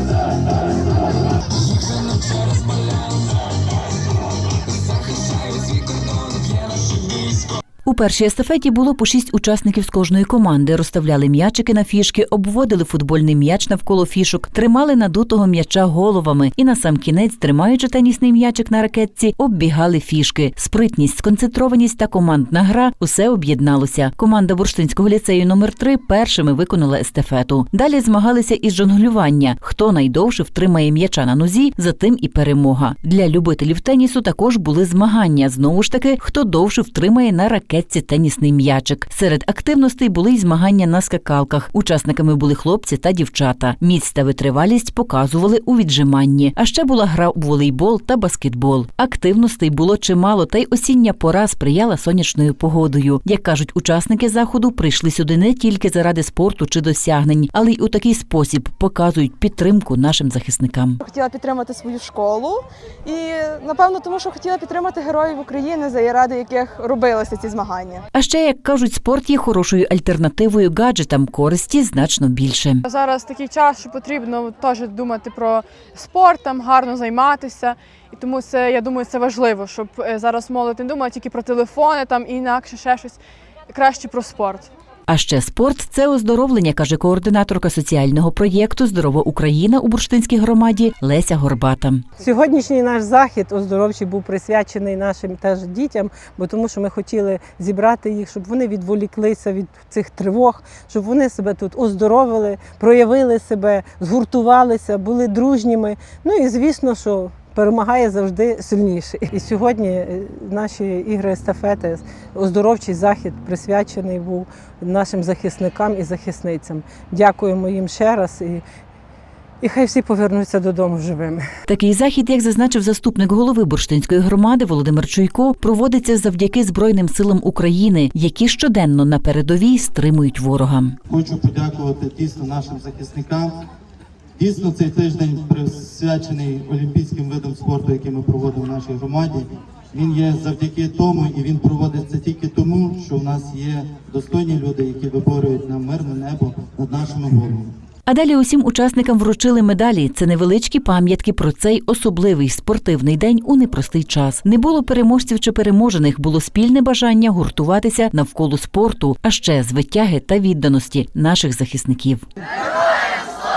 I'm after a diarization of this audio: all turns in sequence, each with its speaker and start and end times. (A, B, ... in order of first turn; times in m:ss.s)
0:07.8-1:01.0 A
1:01.0-1:08.0 B
1:08.1-1:12.8 A
1:12.8-1:23.2 C
1:23.7-1:24.7 C
1:25.1-1:32.0 A
1:32.2-1:58.6 D
1:59.6-2:01.4 D
2:01.7-2:11.0 A
2:11.1-2:13.7 E
2:14.4-2:27.7 E
2:28.1-2:42.2 A